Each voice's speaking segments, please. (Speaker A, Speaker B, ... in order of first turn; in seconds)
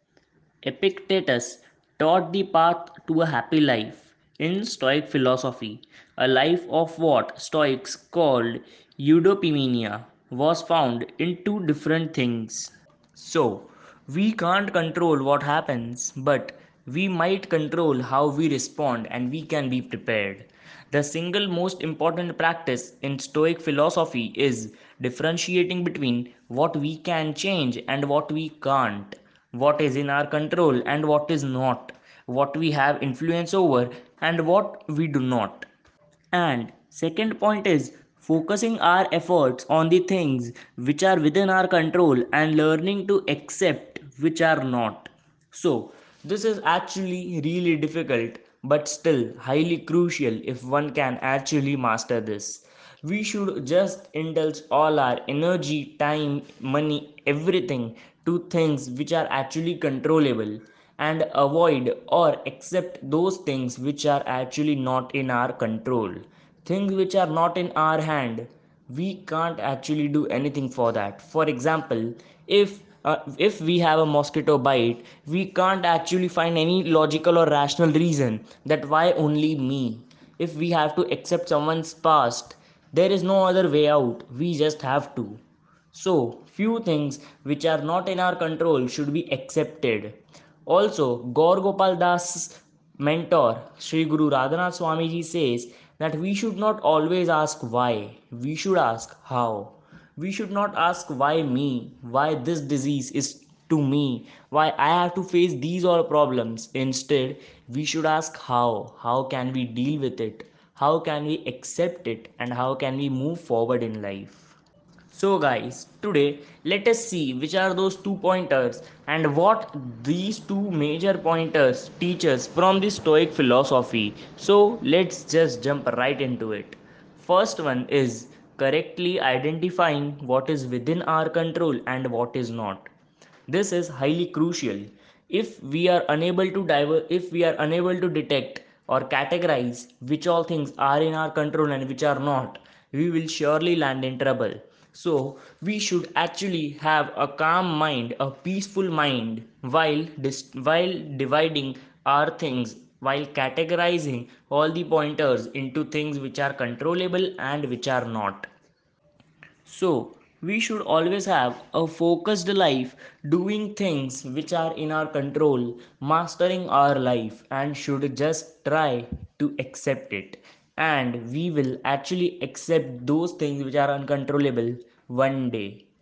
Speaker A: 0.6-35.7, 36.3-85.4, 85.9-114.5, 115.1-132.9, 133.5-158.5, 159.7-175.8